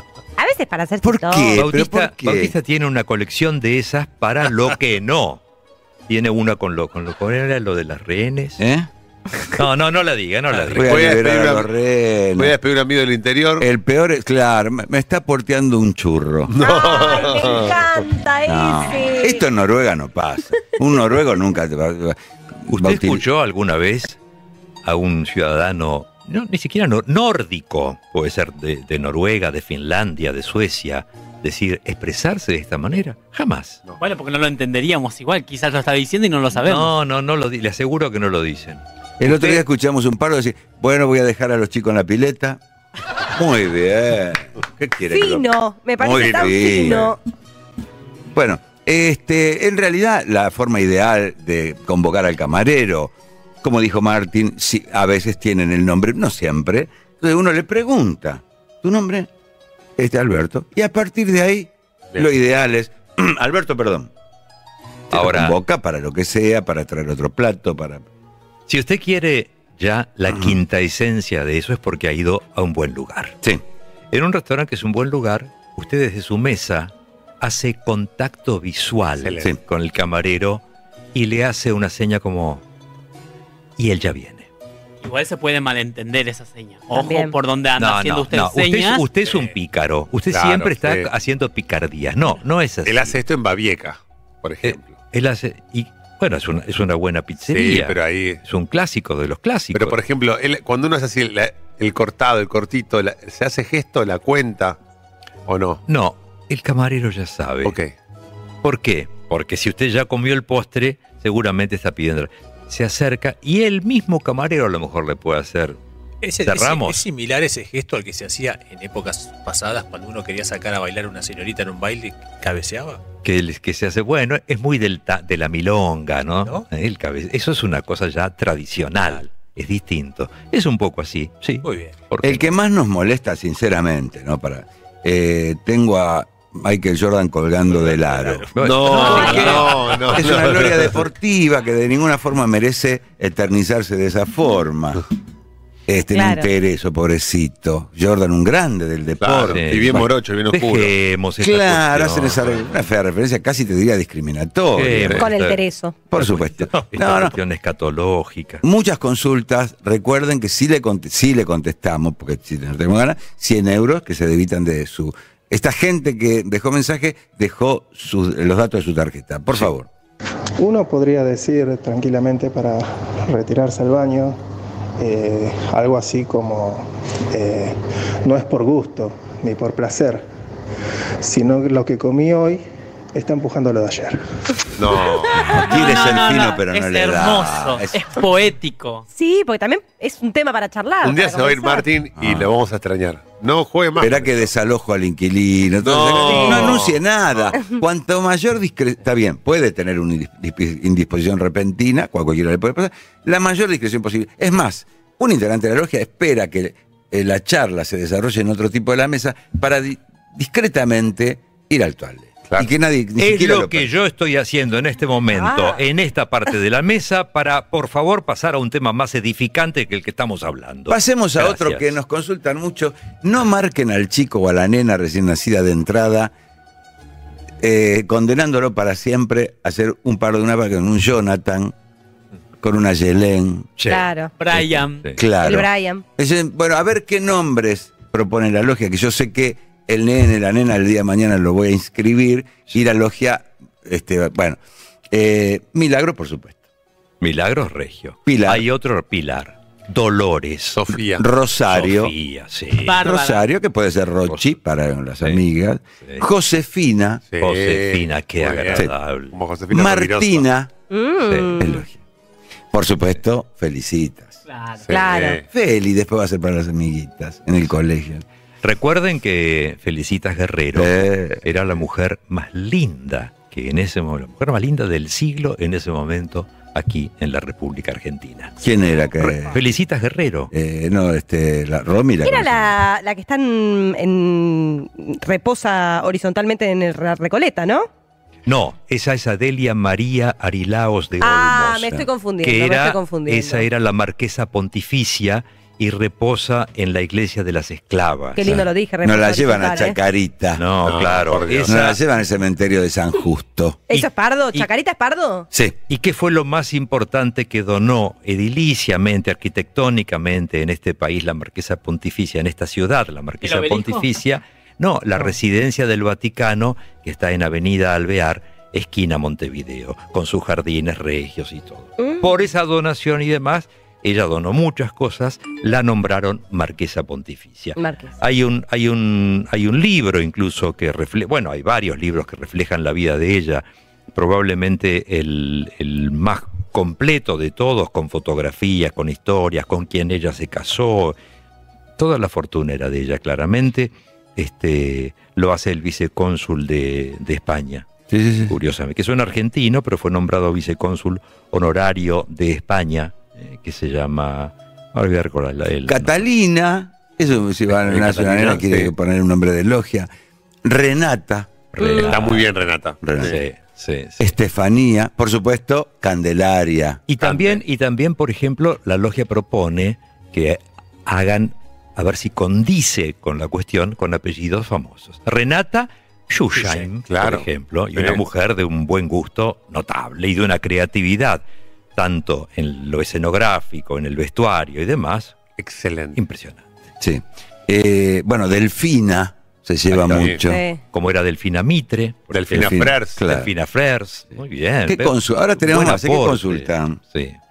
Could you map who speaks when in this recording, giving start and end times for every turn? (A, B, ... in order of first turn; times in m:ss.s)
0:00.4-0:01.6 A
0:01.0-0:02.5 B
0:01.6-0:05.4 C
0:06.1-0:08.6 C
0:08.6-0:08.9 B
0:09.5-0:11.2 C
0:10.7-0:12.6 B
0:10.8-0:11.7 D
0:12.4-0:13.7 D
0:13.6-0:16.5 B
0:16.5-0:18.0 D
0:16.6-0:19.4 A
0:18.5-0:23.2 B
0:22.7-0:24.2 C
0:24.8-0:33.8 C
0:34.0-0:36.9 E
0:36.6-0:39.6 C
0:39.2-0:42.6 B
0:43.3-0:45.5 B
0:45.1-0:47.2 A
0:46.0-0:47.2 B
0:46.2-0:46.5 D
0:48.3-0:59.3 B
1:00.0-1:04.1 B
1:05.1-1:08.0 B
1:05.1-1:05.6 C
1:08.7-1:13.4 C
1:10.3-1:10.6 B
1:14.1-1:20.6 C
1:19.2-1:19.5 D
1:21.1-1:22.6 C
1:23.8-1:24.5 C
1:25.0-1:29.0 E
1:26.9-1:27.4 A
1:27.8-1:33.2 C
1:30.3-1:31.1 D
1:32.9-1:34.9 D
1:34.6-1:40.0 C
1:37.5-1:38.4 D
1:39.7-1:44.8 D
1:45.5-1:45.8 D
1:45.9-1:47.8 C
1:47.6-1:47.9 D
1:48.6-1:55.8 C
1:56.2-2:03.0 F
1:56.4-1:57.0 C
2:03.2-2:12.4 C
2:11.6-2:12.1 F
2:12.2-2:18.5 B
2:17.9-2:19.7 F
2:18.5-2:20.1 C
2:18.6-2:20.9 D
2:19.0-2:19.5 B
2:20.1-2:25.0 B
2:25.9-2:30.0 B
2:26.1-2:26.5 A
2:29.2-2:30.9 D
2:29.4-2:32.5 C
2:31.4-2:35.3 B
2:34.7-2:35.6 C
2:35.2-2:36.0 A
2:36.1-2:37.4 B
2:36.1-2:38.6 C
2:38.6-2:49.9 B
2:50.6-2:54.4 G
2:55.0-3:00.3 G
3:01.2-3:04.2 G
3:04.8-3:05.5 D
3:05.3-3:08.0 B
3:05.5-3:09.0 E
3:09.1-3:11.9 A
3:11.0-3:14.5 D
3:12.2-3:12.5 B
3:14.0-3:33.9 B
3:15.8-3:17.5 D
3:16.2-3:16.8 A
3:33.2-3:41.9 C
3:40.9-3:46.3 B
3:47.6-3:51.7 B
3:52.6-3:53.7 B
3:53.8-3:55.2 C
3:53.9-3:54.3 A
3:54.4-3:55.1 E
3:55.2-4:04.6 B
3:55.4-3:56.0 A
4:05.1-4:06.6 B
4:07.2-4:10.8 C
4:08.3-4:08.7 B
4:10.7-4:11.2 D
4:11.2-4:12.1 B
4:11.7-4:13.0 C
4:12.8-4:13.4 E
4:13.0-4:17.2 B
4:17.3-4:20.4 D
4:17.4-4:19.4 C
4:19.7-4:20.7 B
4:20.9-4:21.8 A
4:21.3-4:21.5 C
4:21.6-4:22.0 B
4:22.7-4:24.4 B
4:24.5-4:24.8 E
4:24.8-4:25.4 D
4:24.9-4:25.4 A
4:25.5-4:28.2 B
4:28.6-4:38.5 C
4:30.7-4:31.4 B
4:38.6-4:39.6 B
4:39.2-4:40.5 C
4:40.5-4:42.7 B
4:42.2-4:47.9 A
4:48.5-4:58.6 C
4:51.2-4:53.7 A
4:58.4-5:00.0 A
4:58.4-5:00.6 B
5:00.6-5:02.0 C
5:00.8-5:01.7 D
5:01.6-5:03.8 B
5:03.9-5:05.5 A
5:03.9-5:04.7 C
5:05.5-5:05.8 B
5:05.9-5:41.2 C
5:13.4-5:14.1 E
5:22.0-5:22.3 A
5:27.8-5:28.1 A
5:42.0-5:47.9 C
5:48.1-5:48.6 B
5:48.5-5:56.2 C
5:55.9-6:00.1 B
5:57.7-5:58.8 C
6:00.6-6:01.5 B
6:01.7-6:02.5 C
6:01.8-6:03.4 D
6:03.0-6:03.4 B
6:03.2-6:04.2 C
6:04.2-6:07.0 B
6:07.1-6:21.4 C
6:07.2-6:07.6 D
6:17.1-6:18.2 D
6:22.0-6:25.4 C
6:25.6-6:26.2 D
6:26.2-6:26.7 C
6:27.0-6:30.6 B
6:30.0-6:30.3 C
6:30.1-6:30.4 D
6:30.4-6:30.8 A
6:30.9-6:37.4 C
6:32.3-6:33.2 D
6:32.5-6:33.5 B
6:34.9-6:37.0 B